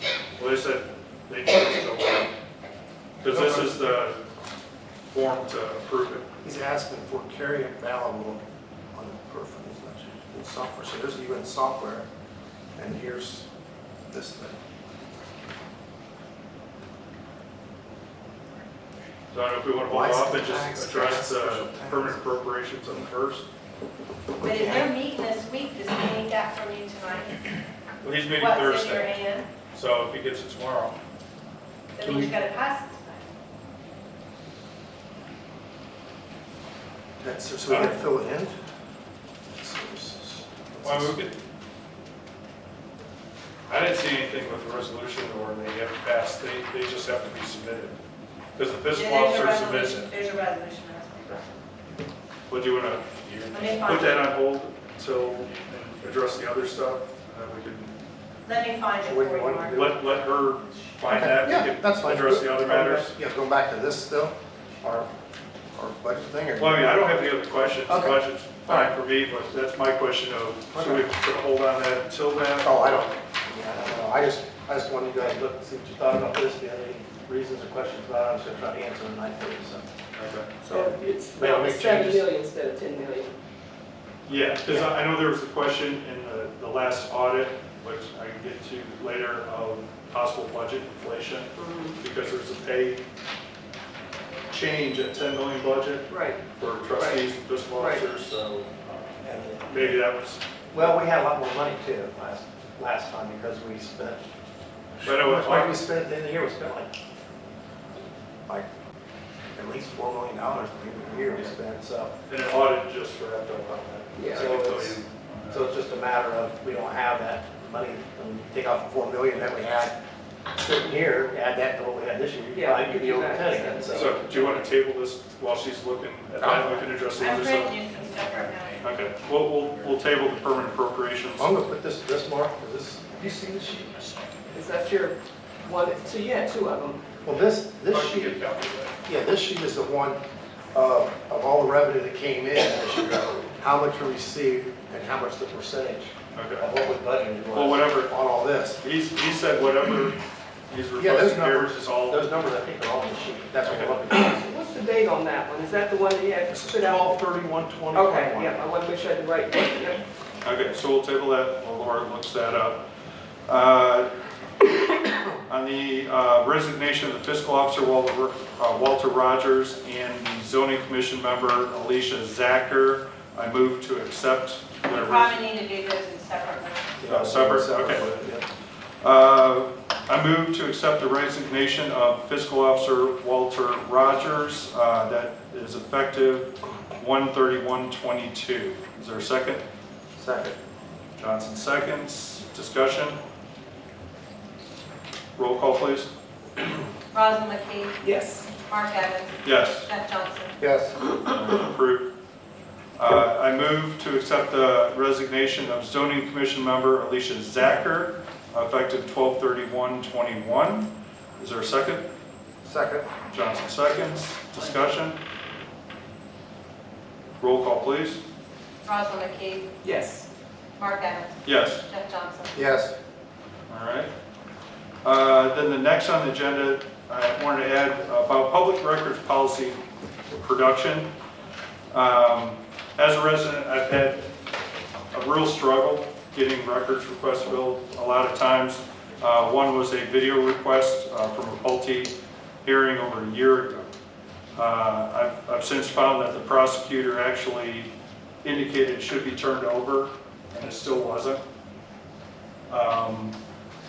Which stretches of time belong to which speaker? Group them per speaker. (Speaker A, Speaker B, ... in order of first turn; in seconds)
Speaker A: 0.4-2.3, 3.2-4.2, 5.1-6.2, 19.3-23.4, 28.0-29.2, 29.7-31.0, 37.7-38.0, 40.8-41.3, 43.7-48.0, 48.5-50.1, 52.5-57.9, 59.7-63.1, 66.6-73.1, 80.1-80.5, 84.3-93.0, 94.5-98.7, 99.7-100.4, 105.0-105.8, 112.3-115.7, 123.9-127.7, 128.8-131.5, 137.9-138.9, 146.3-146.7, 147.5-148.1, 148.8-152.2, 153.7-154.0, 160.4-162.8, 163.5-164.1, 165.5-175.4, 177.0-178.1, 179.0-189.6, 191.2-193.2, 195.3-196.1, 199.4-199.9, 201.1-202.1, 203.0-212.0, 213.3-215.2, 217.4-218.2, 221.4-221.8, 223.7-224.1, 225.0-231.1, 231.9-234.3, 235.1-243.9, 244.6-247.9, 248.4-251.4, 252.7-253.4
Speaker B: 3.2-3.8, 6.4-8.4, 8.9-12.1, 12.8-13.4, 14.1-14.6, 19.9-22.3, 24.4-24.9, 37.2-38.5, 39.6-41.2, 59.0-60.0, 61.1-65.1, 65.7-67.2, 67.9-68.9, 70.7-71.0, 72.6-79.8, 80.7-82.2, 99.2-100.0, 100.7-104.2, 105.0-106.9, 109.5-112.1, 114.3-120.0, 120.5-124.2, 126.4-126.9, 131.3-134.2, 137.2-138.4, 139.0-140.2, 140.7-148.8, 150.9-154.5, 156.5-158.6, 177.0-178.4, 190.2-190.6, 200.6-200.9, 212.6-213.1, 222.5-222.9
Speaker C: 24.4-27.4, 28.4-29.5, 31.9-33.3, 48.9-51.5, 53.5-54.2, 58.5-60.3, 127.2-128.8, 174.9-176.9, 197.1-198.0, 198.5-200.5, 218.8-219.7, 220.8-222.5
Speaker D: 80.6-83.3, 91.5-92.0, 96.1-96.4, 96.9-97.2, 97.8-98.0, 114.1-114.5, 122.5-124.7, 134.5-137.0, 154.2-157.2, 157.9-160.0, 198.0-198.5, 219.8-220.2